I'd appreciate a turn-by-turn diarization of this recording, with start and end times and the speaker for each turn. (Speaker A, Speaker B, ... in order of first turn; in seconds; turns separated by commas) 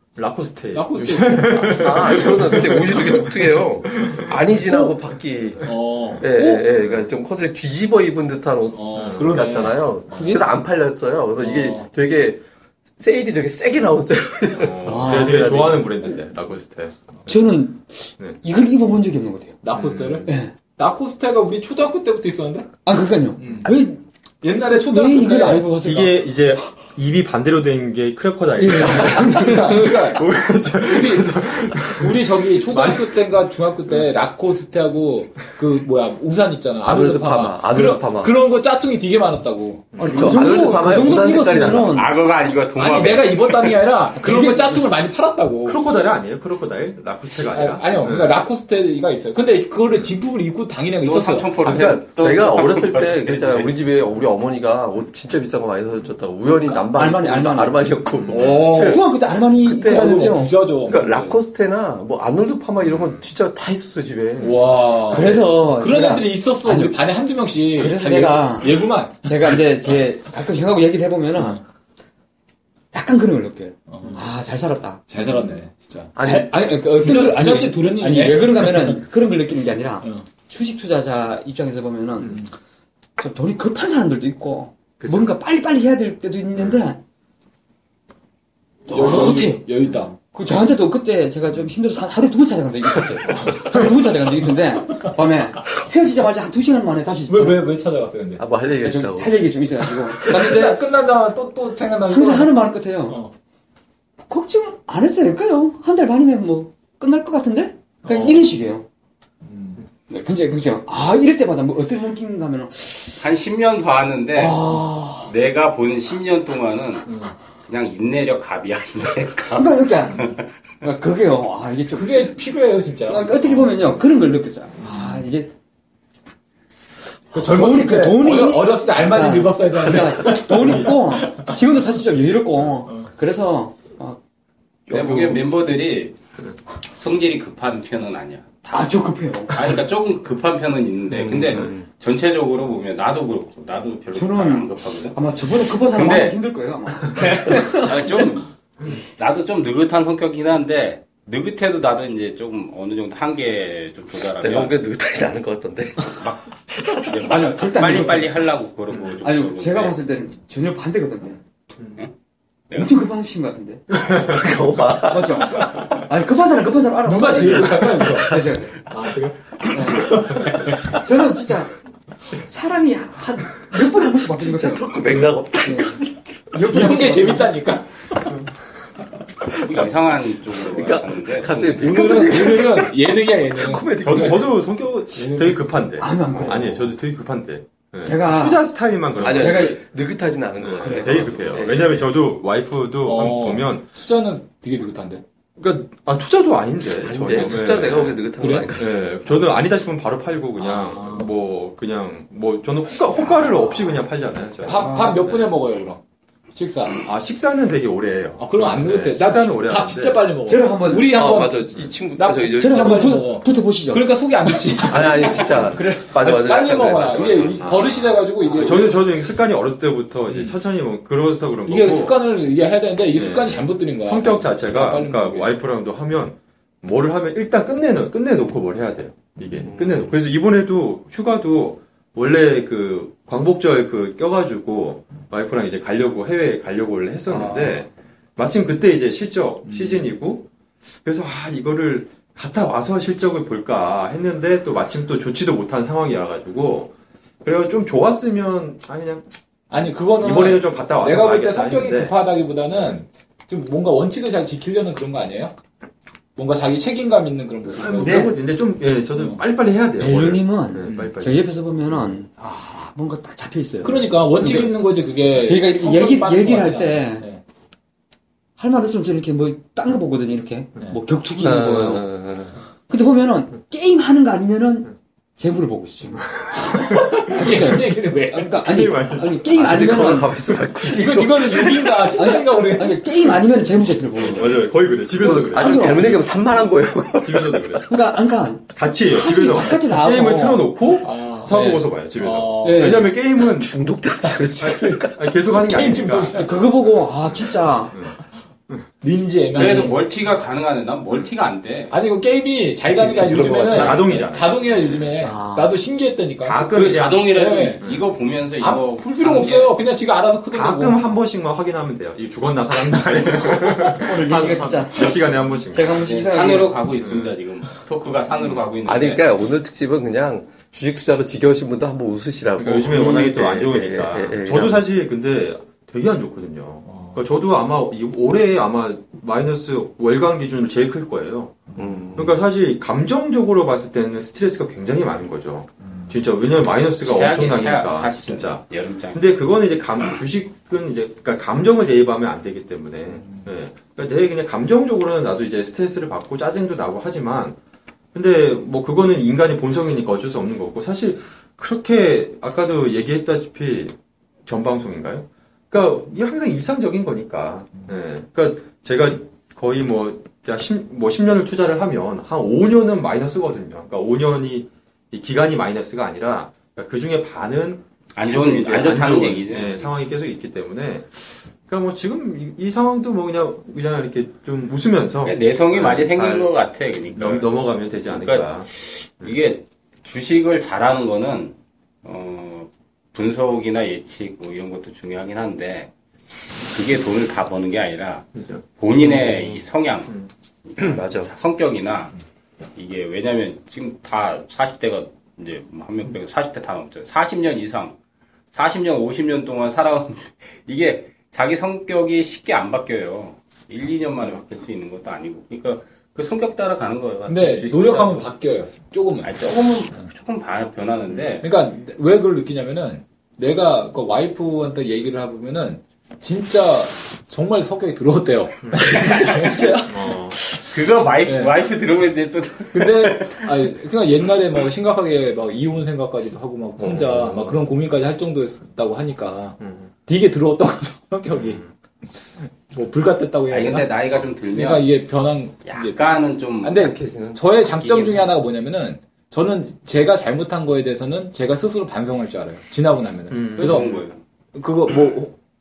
Speaker A: 0.2-4.3, Speaker B: 0.7-2.3, Speaker C: 1.6-12.4, Speaker B: 5.6-6.3, Speaker D: 6.3-6.7, Speaker B: 8.7-10.4, Speaker A: 9.0-9.5, Speaker D: 10.1-10.5, Speaker B: 11.4-11.9, Speaker C: 13.0-15.9, Speaker A: 14.5-17.3, Speaker D: 14.8-15.6, Speaker D: 17.3-19.6, Speaker B: 19.6-22.7, Speaker A: 19.7-20.3, Speaker D: 20.3-20.5, Speaker D: 22.9-24.0, Speaker B: 23.4-23.7, Speaker B: 24.4-25.8, Speaker D: 24.5-26.2, Speaker A: 25.8-33.2, Speaker D: 28.6-29.9, Speaker B: 28.8-40.8, Speaker C: 36.9-38.4, Speaker A: 39.9-40.4, Speaker D: 40.0-42.2, Speaker C: 40.0-42.0, Speaker E: 41.8-43.8, Speaker B: 42.8-45.8, Speaker D: 44.2-44.9, Speaker A: 45.7-48.4, Speaker B: 47.4-51.9, Speaker E: 51.0-53.7, Speaker C: 51.6-65.6, Speaker D: 56.8-60.6, Speaker B: 58.3-59.1, Speaker B: 59.8-61.4, Speaker A: 62.8-63.2, Speaker B: 64.4-69.7, Speaker D: 65.1-67.0, Speaker D: 67.7-71.6, Speaker D: 72.9-75.1, Speaker B: 73.9-74.3, Speaker B: 75.1-76.2, Speaker C: 76.2-76.6, Speaker D: 76.2-82.4, Speaker B: 76.8-79.1, Speaker B: 82.3-82.5, Speaker D: 83.2-87.0, Speaker A: 85.0-85.3, Speaker D: 88.9-97.7, Speaker B: 88.9-90.2, Speaker B: 97.3-98.5, Speaker C: 98.4-99.4, Speaker D: 98.8-100.9, Speaker B: 100.1-103.3, Speaker D: 102.1-103.2, Speaker D: 104.3-108.9, Speaker B: 108.0-108.5, Speaker B: 109.4-109.9, Speaker D: 110.1-113.2, Speaker E: 113.2-114.6, Speaker D: 114.3-115.3, Speaker E: 115.2-117.2, Speaker B: 117.1-117.3, Speaker E: 117.7-120.5, Speaker D: 119.5-122.4, Speaker B: 121.9-123.9, Speaker D: 123.1-125.5, Speaker B: 124.8-125.3, Speaker B: 127.3-131.6, Speaker D: 127.3-134.2, Speaker E: 134.9-136.2, Speaker C: 134.9-135.4, Speaker E: 136.9-138.7, Speaker D: 138.7-139.8, Speaker E: 139.5-146.4, Speaker C: 141.2-141.8, Speaker D: 144.1-148.3, Speaker E: 147.1-154.8, Speaker C: 154.4-157.0, Speaker E: 156.2-160.0, Speaker D: 157.2-158.3, Speaker D: 159.2-161.4, Speaker D: 162.7-163.9, Speaker C: 164.0-165.9, Speaker A: 164.0-164.4, Speaker D: 165.0-168.8, Speaker B: 167.1-171.0, Speaker D: 169.7-171.7, Speaker D: 172.3-175.1, Speaker C: 174.1-176.6, Speaker D: 175.6-177.6, Speaker B: 176.6-178.3, Speaker E: 179.5-181.7, Speaker C: 180.5-184.5, Speaker B: 181.7-184.5, Speaker A: 184.0-189.8, Speaker B: 185.2-185.6, Speaker D: 186.0-187.0, Speaker D: 188.0-188.7, Speaker C: 189.2-192.1, Speaker D: 189.2-189.8, Speaker A: 190.6-193.9, Speaker D: 190.8-191.3, Speaker B: 193.1-195.2, Speaker A: 195.6-205.5, Speaker C: 197.0-199.0, Speaker B: 198.4-198.7, Speaker B: 200.7-201.3, Speaker B: 203.4-203.7, Speaker B: 204.6-206.0, Speaker D: 204.7-205.3, Speaker B: 206.5-207.1, Speaker A: 207.0-210.3, Speaker B: 208.4-219.1, Speaker D: 210.5-211.5, Speaker C: 211.0-213.2, Speaker D: 212.4-216.3, Speaker C: 214.8-217.6, Speaker A: 217.2-222.2, Speaker B: 220.3-220.6, Speaker B: 221.7-225.5, Speaker A: 223.1-240.5, Speaker C: 229.7-230.1, Speaker C: 237.3-237.7, Speaker B: 239.7-240.1, Speaker A: 241.0-249.3, Speaker B: 249.7-255.5, Speaker A: 250.1-252.2, Speaker A: 252.7-253.0, Speaker B: 256.4-258.4, Speaker A: 257.7-261.5, Speaker D: 258.0-258.4, Speaker B: 259.1-259.4, Speaker D: 260.0-264.8, Speaker B: 260.9-261.1, Speaker B: 263.8-267.4, Speaker D: 265.3-267.3, Speaker D: 268.6-272.1, Speaker C: 271.4-272.6, Speaker D: 272.9-280.4, Speaker A: 276.4-277.2, Speaker B: 276.8-278.6, Speaker A: 278.6-279.6, Speaker C: 279.5-282.1, Speaker B: 280.8-283.4, Speaker D: 282.1-284.7, Speaker A: 284.2-286.6, Speaker C: 285.1-287.8, Speaker D: 285.4-286.2, Speaker A: 287.2-287.9, Speaker D: 287.9-290.7, Speaker A: 288.7-293.8, Speaker B: 291.0-291.6, Speaker D: 291.5-291.9, Speaker B: 292.1-293.1, Speaker D: 292.6-293.1, Speaker C: 293.4-295.2, Speaker A: 294.6-296.5, Speaker B: 295.6-296.6, Speaker D: 296.3-298.0, Speaker A: 297.3-298.2, Speaker B: 299.0-300.0, Speaker E: 299.5-302.0, Speaker B: 301.9-307.8, Speaker C: 302.9-304.3, Speaker A: 303.6-305.1, Speaker D: 305.2-305.8, Speaker A: 306.4-308.1, Speaker E: 306.7-309.8, Speaker B: 308.6-311.0, Speaker A: 310.5-316.1, Speaker D: 313.8-316.8, Speaker E: 315.9-319.3, Speaker A: 317.0-317.3, Speaker C: 318.9-324.9, Speaker A: 322.6-331.6, Speaker B: 326.9-327.2, Speaker B: 331.7-332.0, Speaker C: 331.8-332.4, Speaker A: 332.1-347.6, Speaker B: 335.8-336.2, Speaker E: 337.0-339.2, Speaker B: 343.1-343.5, Speaker A: 348.1-376.5, Speaker E: 368.1-369.9, Speaker E: 375.2-377.5, Speaker A: 377.2-378.7, Speaker E: 378.1-385.9, Speaker E: 386.7-390.1, Speaker A: 388.4-388.6, Speaker E: 390.7-392.2, Speaker C: 390.9-391.3, Speaker E: 392.8-398.0, Speaker E: 398.5-408.3, Speaker B: 407.3-410.1, Speaker E: 409.2-411.5, Speaker B: 411.4-420.1, Speaker A: 418.6-419.1, Speaker E: 418.8-419.8, Speaker A: 419.8-420.4, Speaker E: 420.5-423.7, Speaker B: 421.2-421.5, Speaker B: 422.7-431.6, Speaker A: 426.8-427.6, Speaker A: 429.6-429.9, Speaker A: 431.4-431.7, Speaker B: 432.3-433.9, Speaker E: 433.5-434.9, Speaker B: 434.5-443.9, Speaker E: 435.6-436.9, Speaker C: 436.8-437.4, Speaker E: 437.6-438.3, Speaker A: 443.3-444.0, Speaker E: 443.6-444.2, Speaker B: 444.5-445.4